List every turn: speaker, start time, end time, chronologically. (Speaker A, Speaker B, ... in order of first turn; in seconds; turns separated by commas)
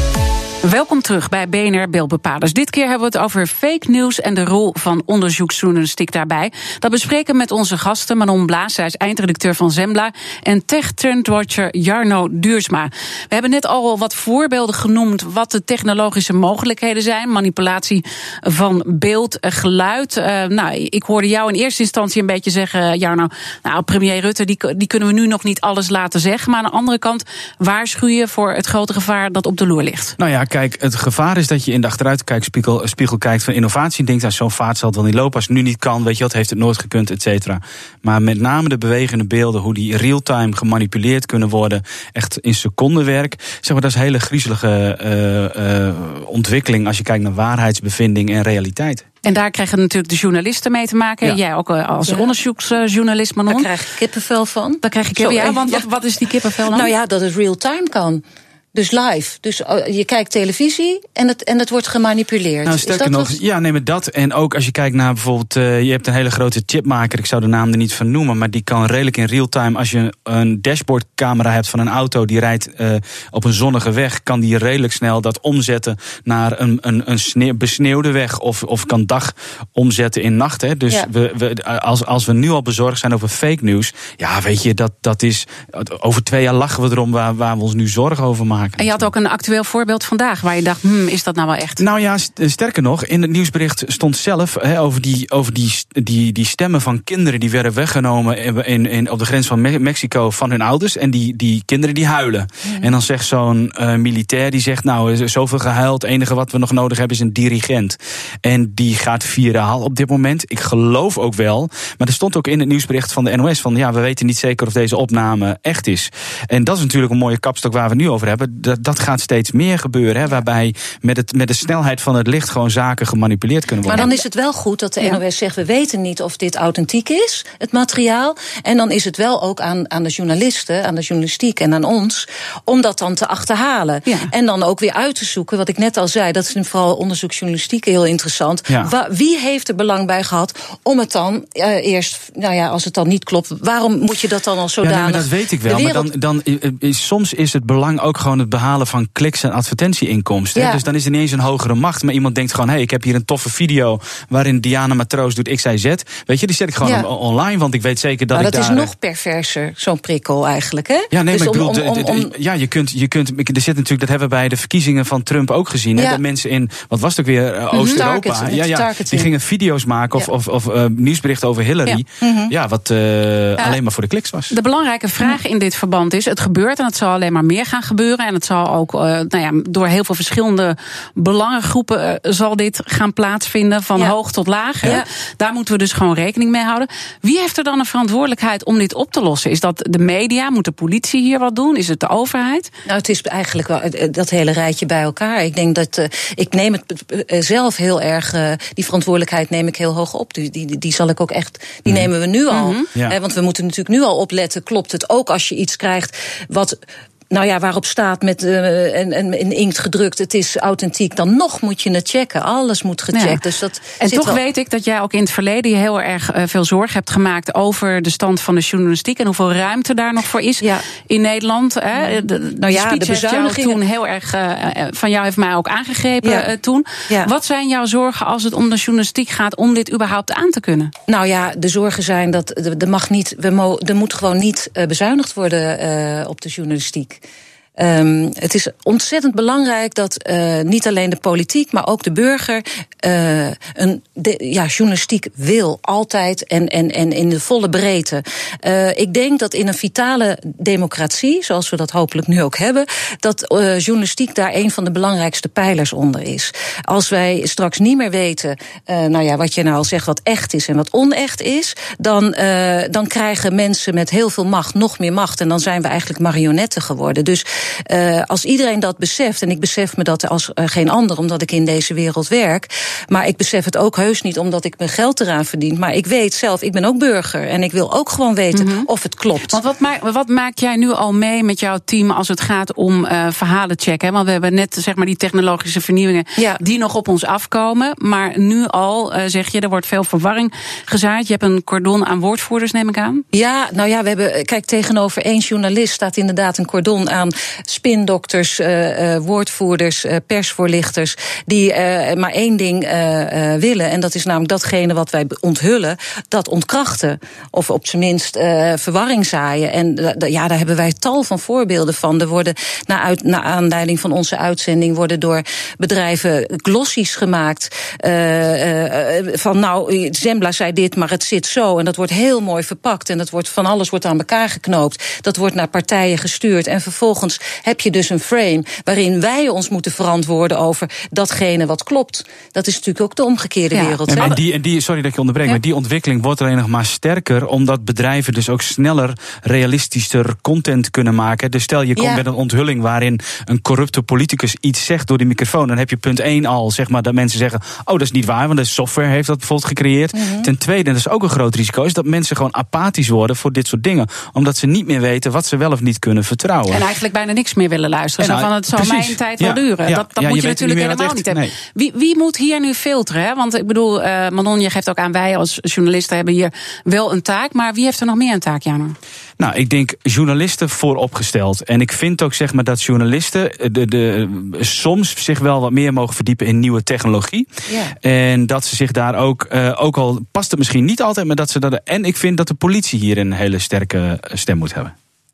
Speaker A: 0.6-30.1, Speaker B: 30.2-49.1, Speaker A: 49.2-53.7, Speaker C: 52.0-52.3, Speaker C: 53.5-55.8, Speaker A: 54.8-56.9, Speaker C: 56.7-58.2, Speaker C: 58.7-63.4, Speaker B: 62.6-89.1, Speaker A: 88.8-91.8, Speaker B: 91.8-124.1, Speaker C: 123.8-146.1, Speaker B: 144.8-158.9, Speaker C: 150.5-150.8, Speaker C: 156.8-157.1, Speaker C: 158.3-162.3, Speaker B: 161.1-174.6, Speaker C: 165.9-166.2, Speaker C: 167.7-169.3, Speaker A: 167.7-168.0, Speaker C: 172.2-172.5, Speaker A: 174.5-192.7, Speaker C: 192.8-206.8, Speaker A: 202.5-202.8, Speaker C: 207.3-214.4, Speaker A: 213.1-213.4, Speaker A: 214.0-230.9, Speaker C: 222.6-223.8, Speaker C: 231.1-237.2, Speaker C: 237.8-279.6, Speaker A: 278.5-278.9, Speaker A: 279.5-293.2, Speaker C: 293.3-334.4, Speaker A: 333.7-334.2, Speaker B: 334.1-356.8, Speaker C: 341.9-342.2, Speaker C: 350.1-350.5, Speaker A: 356.7-368.9, Speaker B: 358.2-361.6, Speaker B: 369.4-377.5, Speaker C: 377.7-377.9, Speaker B: 378.0-384.9